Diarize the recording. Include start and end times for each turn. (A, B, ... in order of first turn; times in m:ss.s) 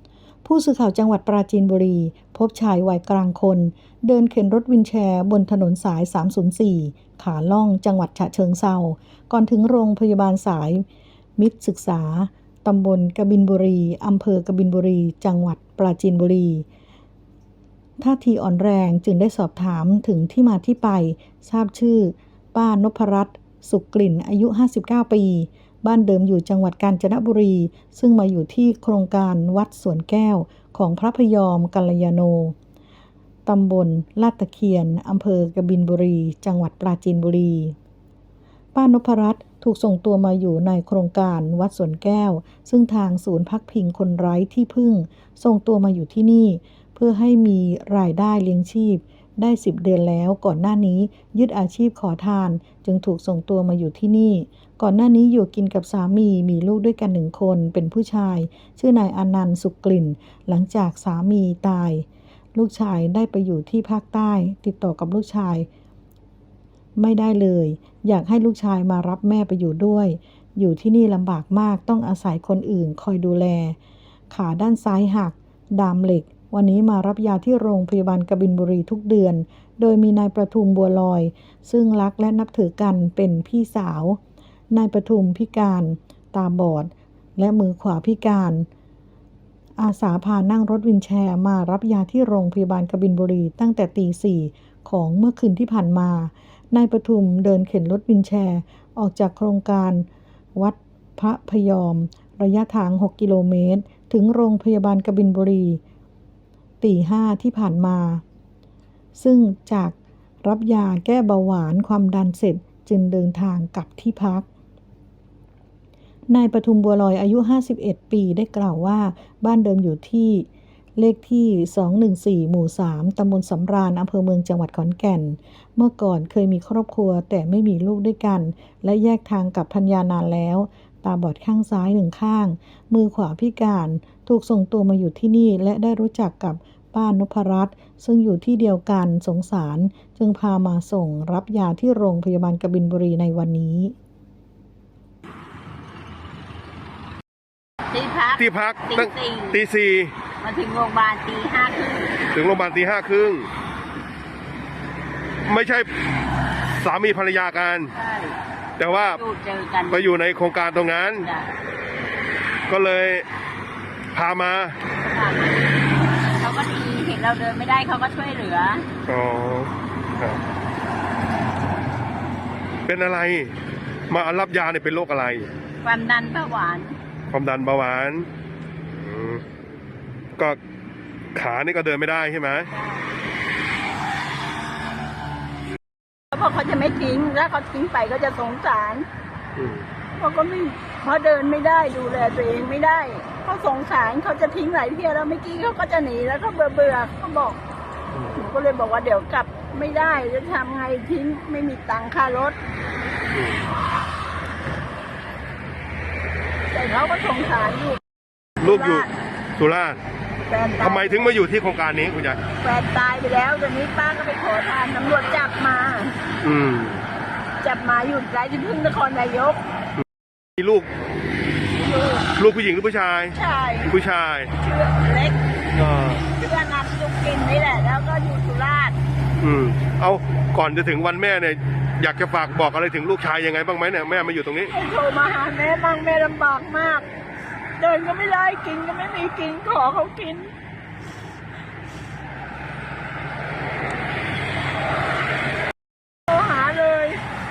0:00.4-0:10.8 A
0:11.4-0:16.6 A
0:18.0-0:32.6 A
0:33.4-0:37.7 A
0:38.7-1:05.7 A
1:07.0-1:13.8 A
1:14.3-1:24.2 A
1:24.7-1:28.7 A
1:29.8-1:45.8 A
1:46.8-1:48.2 A
1:49.2-1:54.5 A
1:56.3-2:23.9 A
2:27.9-2:29.6 B
2:28.4-2:30.1 C
2:30.4-2:32.2 B
2:32.3-2:33.5 C
2:35.4-2:35.9 C
2:36.8-2:37.9 C
2:37.9-2:38.4 B
2:38.8-2:39.2 C
2:39.2-2:40.1 B
2:39.9-2:41.3 C
2:42.7-2:43.2 C
2:44.1-2:44.8 C
2:45.0-2:45.6 B
2:46.4-2:48.8 B
2:49.1-2:50.4 C
2:52.8-2:53.5 C
2:54.1-2:55.5 C
2:55.8-2:57.0 B
2:57.3-2:58.3 C
2:59.0-2:59.4 C
3:01.3-3:02.7 C
3:02.7-3:03.0 B
3:06.3-3:09.0 B
3:09.6-3:09.8 C
3:10.2-3:17.6 B
3:18.3-3:22.6 B
3:23.3-3:23.7 C
3:26.7-3:28.0 B
3:28.6-3:29.1 B
3:28.6-3:30.0 C
3:30.5-3:31.3 B
3:30.8-3:32.4 C
3:32.6-3:36.2 B
3:36.4-3:37.0 C
3:37.6-3:39.6 B
3:40.6-3:40.9 C
3:41.7-3:42.2 B
3:42.4-3:43.4 C
3:43.4-3:43.9 B
3:43.9-3:44.5 C
3:44.6-3:45.4 B
3:45.8-3:46.2 C
3:46.3-3:49.0 B
3:49.4-3:54.7 C
3:54.7-3:57.0 B
3:57.8-4:00.5 B
4:06.3-4:07.2 B